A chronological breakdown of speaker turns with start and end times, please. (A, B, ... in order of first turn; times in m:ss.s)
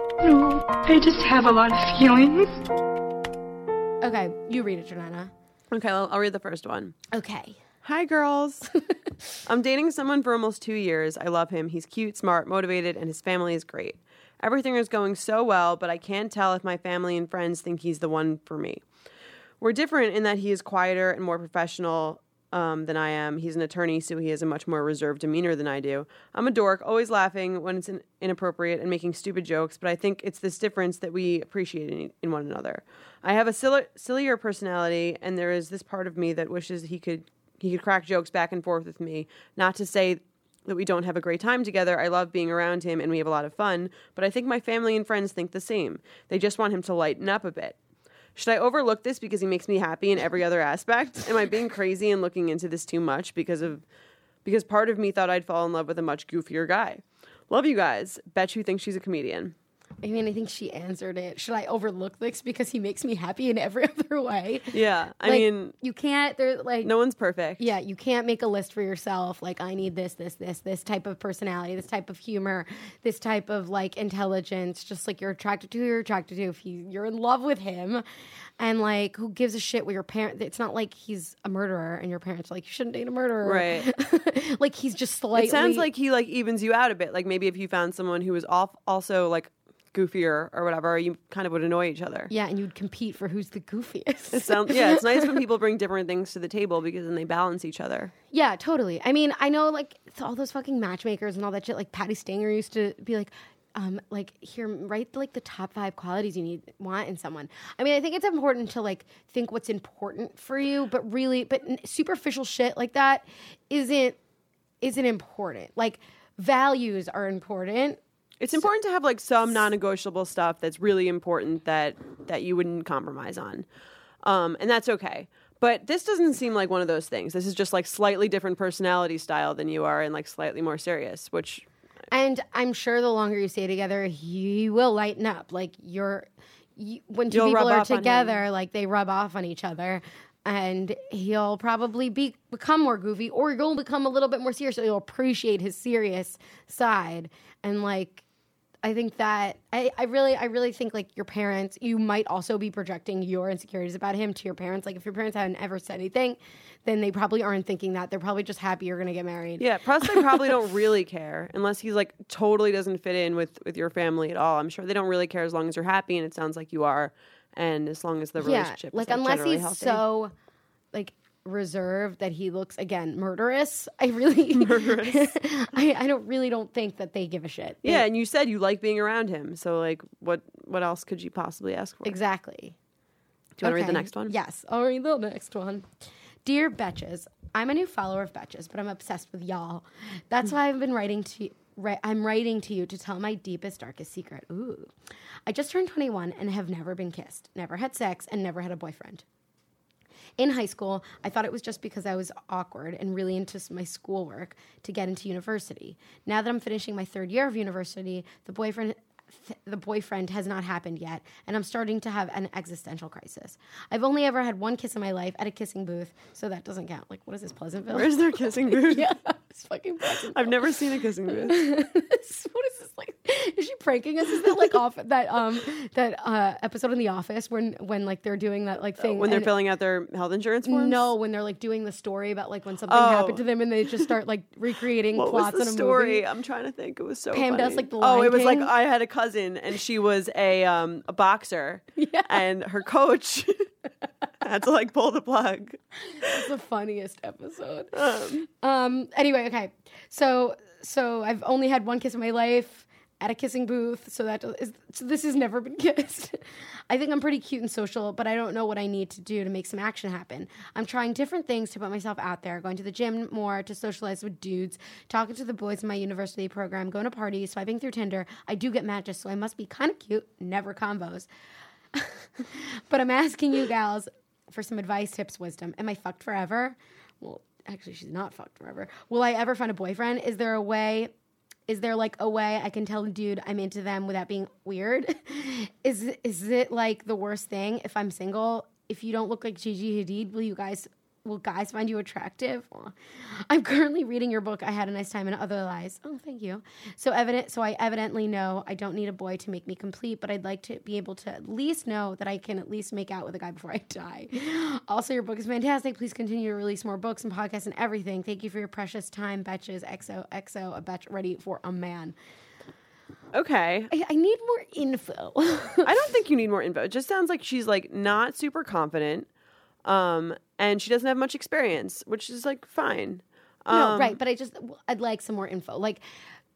0:00.2-0:02.6 A
0:04.0-0:05.3 B
0:05.7-0:07.0 C
0:07.1-0:07.6 B
0:07.8-0:08.7 C
0:09.4-0:18.8 C
0:19.6-0:47.8 C
0:48.4-0:53.8 C
0:54.4-0:59.5 C
1:00.0-1:06.9 B
1:04.7-1:05.7 C
1:06.8-1:07.7 C
1:07.6-1:18.0 B
1:18.6-1:25.9 B
1:23.4-1:23.9 C
1:25.3-1:32.3 C
1:32.3-1:35.3 B
1:34.3-1:38.1 C
1:38.3-1:54.2 B
1:54.8-1:58.0 B
1:58.4-2:03.6 C
2:04.2-2:11.7 C
2:12.1-2:28.2 B
2:17.3-2:18.4 C
2:28.8-2:40.4 B
2:39.6-2:50.0 C
2:48.4-2:50.3 B
2:50.9-2:58.0 B
2:54.5-2:55.3 C
2:57.8-3:02.2 C
3:02.0-3:02.8 B
3:03.6-3:04.3 C
3:03.6-3:05.8 B
3:06.4-3:14.9 B
3:15.5-3:19.2 B
3:20.4-3:40.7 B
3:37.9-3:39.1 C
3:40.2-3:41.6 C
3:41.3-3:49.5 B
3:49.0-3:51.0 C
3:50.6-3:56.2 B
3:52.9-3:53.4 C
3:55.1-4:03.7 C
3:57.3-3:58.7 B
4:02.0-4:02.4 B
4:04.4-4:06.4 C
4:06.2-4:31.3 B
4:07.9-4:08.4 C
4:31.9-4:41.1 B
4:41.7-5:12.1 B
5:13.3-5:13.9 C
5:13.9-5:16.0 B
5:15.8-5:19.3 C
5:19.8-5:24.2 C
5:23.7-5:26.0 B